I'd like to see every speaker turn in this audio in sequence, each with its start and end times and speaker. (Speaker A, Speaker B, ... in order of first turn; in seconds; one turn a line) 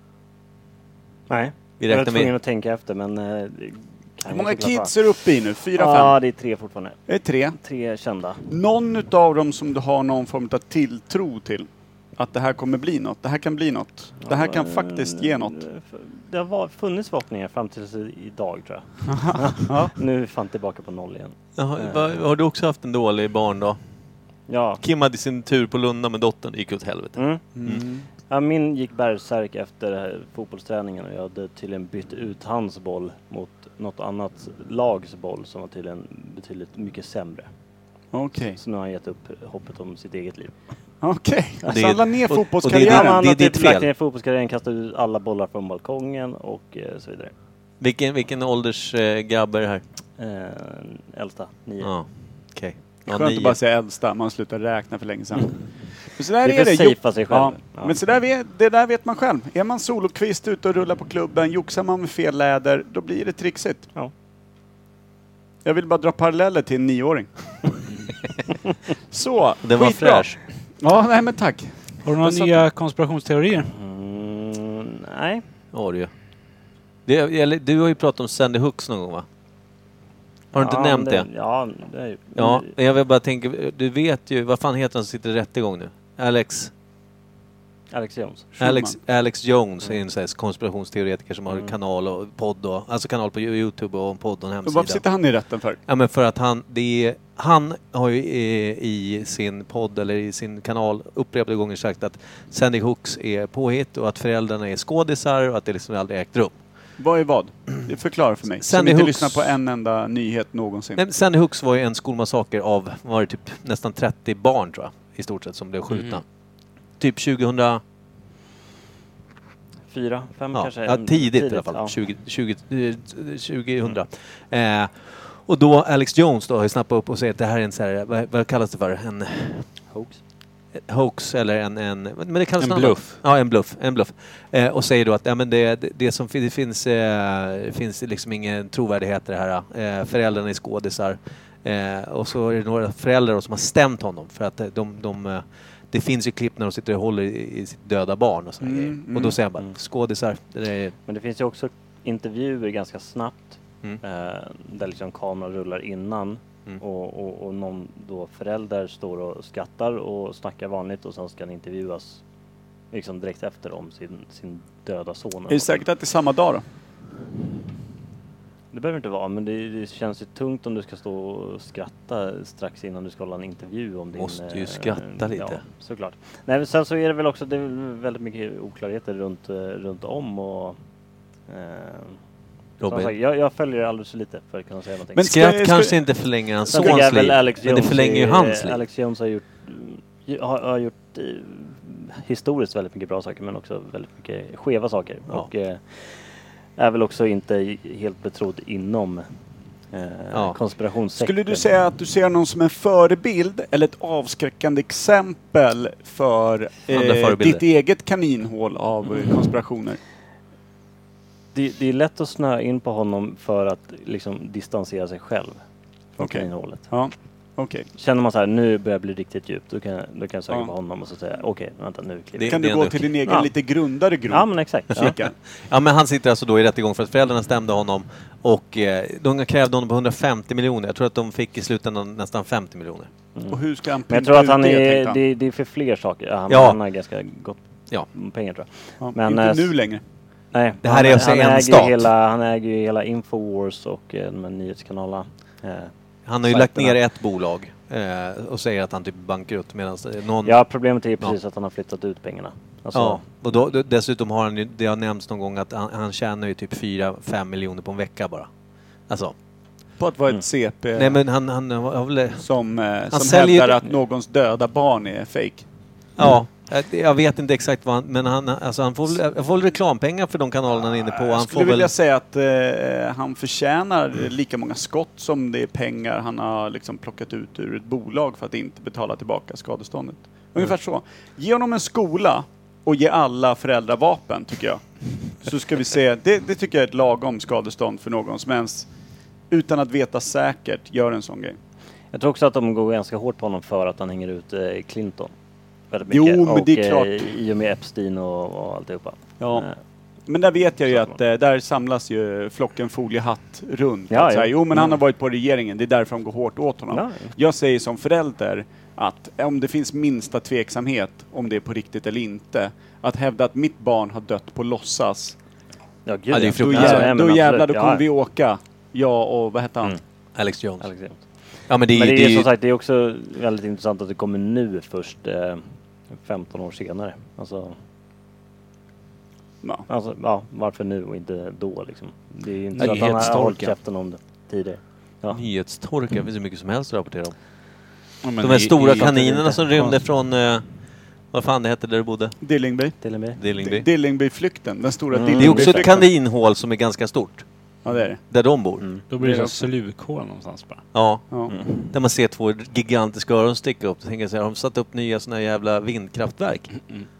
Speaker A: 1.3-4.9
Speaker B: 1.8-2.3
Speaker C: 4.3-6.2
Speaker A: 5.7-7.0
Speaker C: 7.1-7.6
Speaker A: 7.6-8.5
Speaker C: 8.5-15.6
Speaker A: 14.2-22.2
Speaker C: 19.1-19.9
Speaker B: 21.6-23.8
Speaker A: 24.5-24.8
Speaker B: 24.8-27.8
Speaker A: 27.2-27.5
Speaker C: 27.5-28.0
Speaker A: 28.3-37.5
Speaker C: 38.1-38.6
Speaker A: 38.6-40.6
Speaker C: 41.0-43.2
Speaker B: 41.6-43.9
Speaker A: 42.6-47.3
Speaker B: 47.8-49.8
Speaker A: 50.2-51.9
Speaker B: 51.8-53.6
Speaker C: 53.1-55.5
Speaker C: 56.2-63.9
Speaker A: 56.4-58.0
Speaker C: 65.6-67.7
Speaker C: 69.1-72.6
Speaker B: 69.6-70.4
Speaker D: 72.0-73.7
Speaker A: 73.7-75.4
Speaker B: 75.7-76.1
Speaker B: 77.0-79.2
Speaker B: 80.5-81.3
Speaker A: 80.5-82.7
Speaker B: 82.3-86.7
Speaker A: 87.9-88.5
Speaker C: 88.6-89.0
Speaker B: 88.6-95.0
Speaker C: 94.6-95.8
Speaker B: 95.9-106.6
Speaker C: 107.0-111.0
Speaker B: 108.6-109.5
Speaker B: 111.0-116.2
Speaker B: 117.0-117.8
Speaker A: 119.9-122.0
Speaker B: 120.5-129.7
Speaker A: 129.9-130.2
Speaker B: 130.8-150.9
Speaker D: 132.6-133.2
Speaker C: 148.6-149.4
Speaker A: 151.1-162.2
Speaker A: 162.9-165.8
Speaker C: 165.5-166.6
Speaker A: 168.7-180.8
Speaker B: 174.1-175.6
Speaker A: 181.5-182.2
Speaker B: 182.8-183.1
Speaker A: 182.8-185.3
Speaker C: 185.1-186.0
Speaker B: 185.2-188.8
Speaker A: 186.7-199.3
Speaker A: 199.9-201.7
Speaker B: 200.3-200.6
Speaker C: 201.2-210.0
Speaker B: 206.9-207.6
Speaker A: 211.5-215.6
Speaker A: 216.2-216.9
Speaker C: 216.2-217.8
Speaker A: 218.0-222.6
Speaker B: 222.3-223.1
Speaker C: 222.4-225.3
Speaker A: 223.2-223.5
Speaker A: 224.3-225.2
Speaker B: 225.6-233.1
Speaker A: 233.3-237.6
Speaker C: 233.5-235.2
Speaker B: 236.5-236.8
Speaker A: 238.1-239.7
Speaker C: 239.0-240.0
Speaker A: 240.5-245.9
Speaker B: 240.8-242.1
Speaker B: 246.3-250.6
Speaker A: 246.4-247.0
Speaker A: 250.4-253.2
Speaker B: 252.9-258.5
Speaker B: 259.1-259.3
Speaker C: 260.0-261.2
Speaker B: 260.9-262.4
Speaker C: 262.4-265.6
Speaker B: 263.1-263.8
Speaker B: 266.2-271.9
Speaker C: 271.1-284.8
Speaker C: 285.4-288.9
Speaker C: 289.5-291.6
Speaker A: 292.1-295.3
Speaker A: 295.9-299.8
Speaker C: 296.1-297.3
Speaker C: 299.4-299.7
Speaker C: 300.3-315.4
Speaker A: 304.1-305.0
Speaker A: 306.9-307.3
Speaker A: 316.1-318.0
Speaker B: 316.3-317.2
Speaker C: 316.6-320.0
Speaker B: 320.3-320.9
Speaker A: 320.8-321.2
Speaker B: 321.7-322.5
Speaker A: 321.9-327.8
Speaker A: 329.9-335.4
Speaker D: 332.7-333.7
Speaker B: 335.3-337.4
Speaker D: 338.2-339.9
Speaker B: 338.4-340.6
Speaker A: 338.9-339.7
Speaker B: 341.3-342.4
Speaker C: 342.4-343.0
Speaker A: 343.0-343.4
Speaker B: 343.4-343.9
Speaker C: 343.5-346.1
Speaker A: 345.1-346.0
Speaker B: 345.3-347.4
Speaker C: 347.8-348.2
Speaker B: 348.3-348.9
Speaker A: 348.8-349.1
Speaker D: 349.1-350.8
Speaker C: 349.2-349.6
Speaker B: 350.9-356.9
Speaker A: 351.5-351.8